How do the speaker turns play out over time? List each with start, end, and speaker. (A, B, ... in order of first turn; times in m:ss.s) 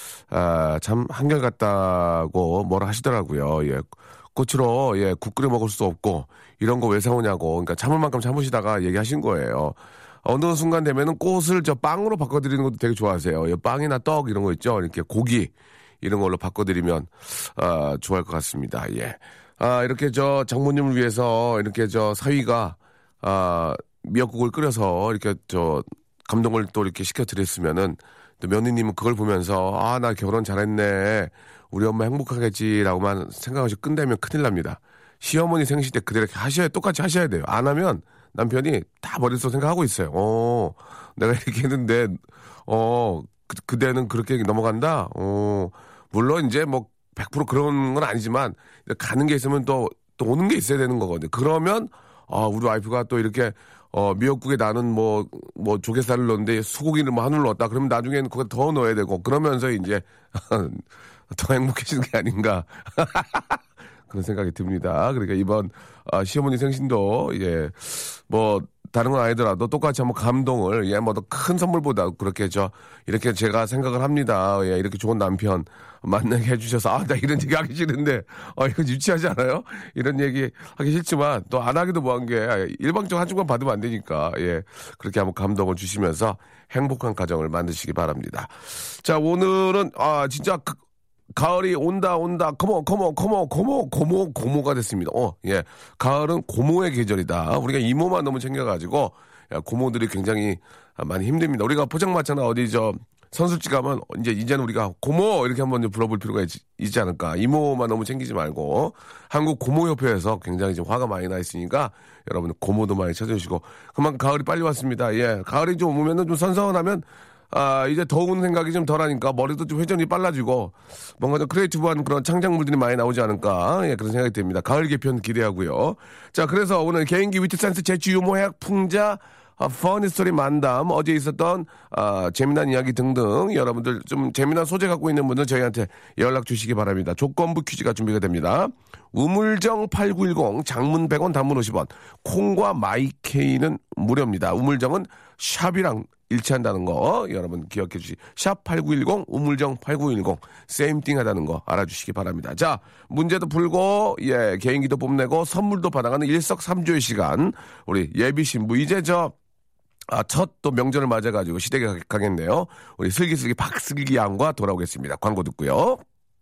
0:00.3-1:30.8 A
1:31.3-2:39.3 A
2:40.1-2:46.0 A